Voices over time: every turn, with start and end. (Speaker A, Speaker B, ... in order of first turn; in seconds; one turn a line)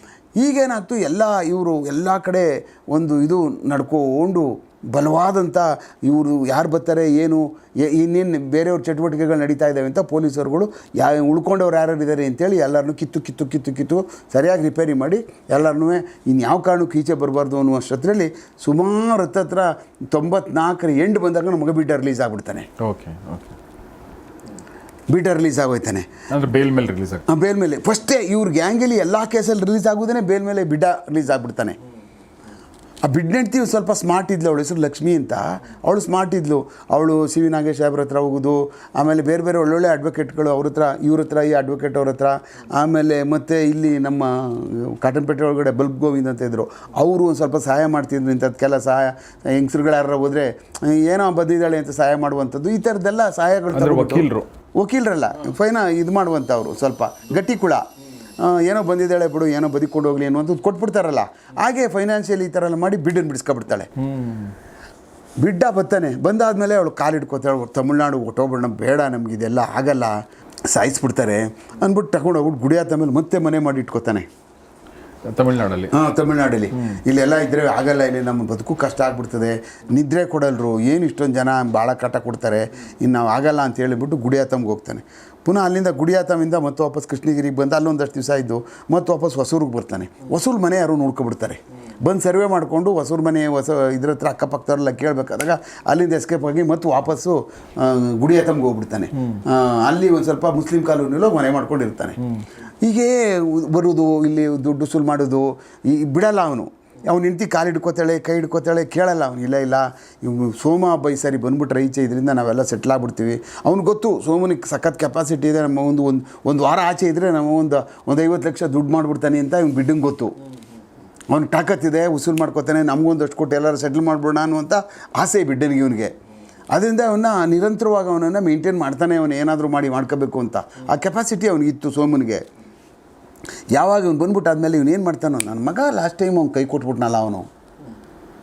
Speaker A: 0.4-22.7
Speaker B: 22.8-23.6
Speaker A: 25.1-26.1
Speaker B: 26.3-27.2
Speaker A: 27.3-31.8
Speaker A: 33.0-57.9
Speaker B: 53.7-54.5
Speaker A: 58.4-63.9
Speaker B: 64.0-64.5
Speaker A: 65.4-74.3
Speaker B: 75.3-75.9
Speaker A: 75.9-102.2
Speaker B: 76.7-77.0
Speaker B: 99.1-99.4
Speaker B: 102.2-102.5
Speaker A: 102.8-120.3
Speaker A: 121.3-126.1
Speaker A: 126.7-132.4
Speaker A: 133.7-137.5